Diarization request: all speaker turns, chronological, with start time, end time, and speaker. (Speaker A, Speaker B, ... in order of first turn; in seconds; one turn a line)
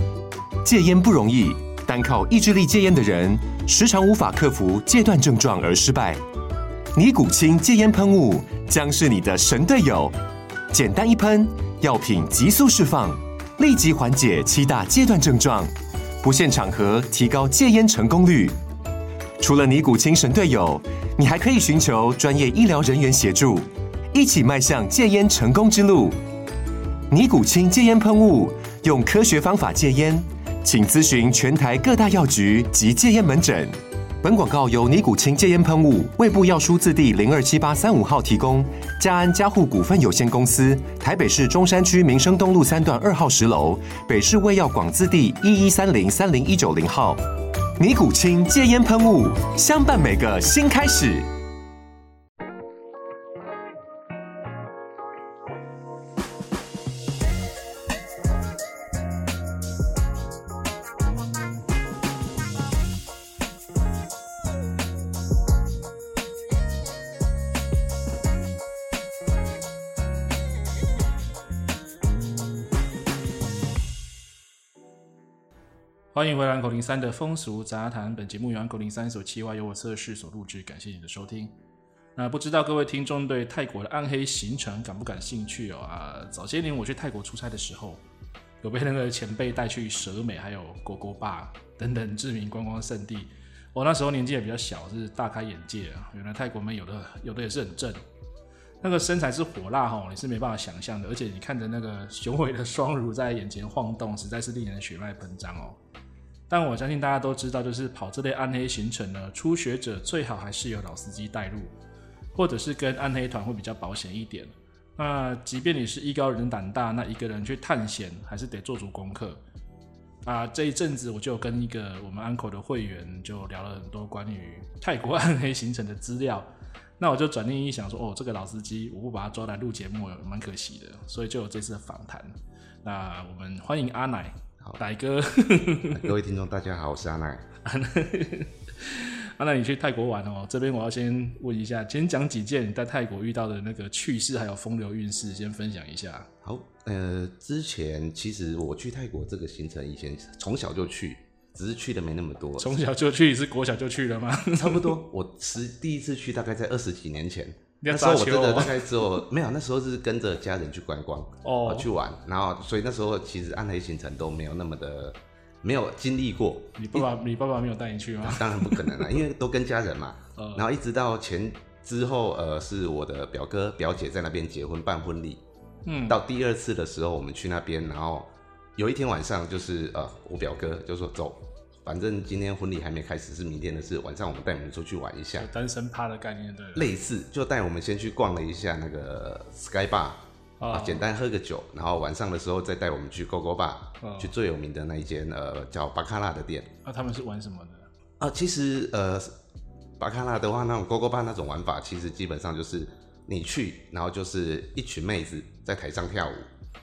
Speaker A: 0.6-6.2
Speaker A: 6.9-10.2
Speaker A: 10.7-18.6
Speaker A: 19.4-26.2
Speaker A: 27.1-47.2
Speaker A: 47.8-51.3
Speaker B: 76.1-81.5
Speaker B: 82.2-88.0
Speaker B: 88.6-98.0
Speaker B: 98.8-105.8
Speaker B: 106.5-111.7
Speaker B: 112.3-119.4
Speaker B: 120.2-136.1
Speaker C: 135.9-137.5
Speaker B: 137.6-146.3
Speaker C: 146.4-152.8
Speaker B: 152.6-155.0
Speaker C: 154.5-167.1
Speaker B: 157.8-159.2
Speaker B: 161.4-161.9
Speaker B: 166.8-169.1
Speaker C: 168.2-175.4
Speaker B: 170.3-170.7
Speaker B: 175.8-176.2
Speaker C: 176.1-185.5
Speaker B: 185.3-186.9
Speaker C: 186.7-196.7
Speaker B: 190.6-191.1
Speaker B: 194.0-194.3
Speaker B: 196.8-197.9
Speaker C: 198.2-199.3
Speaker C: 200.0-206.5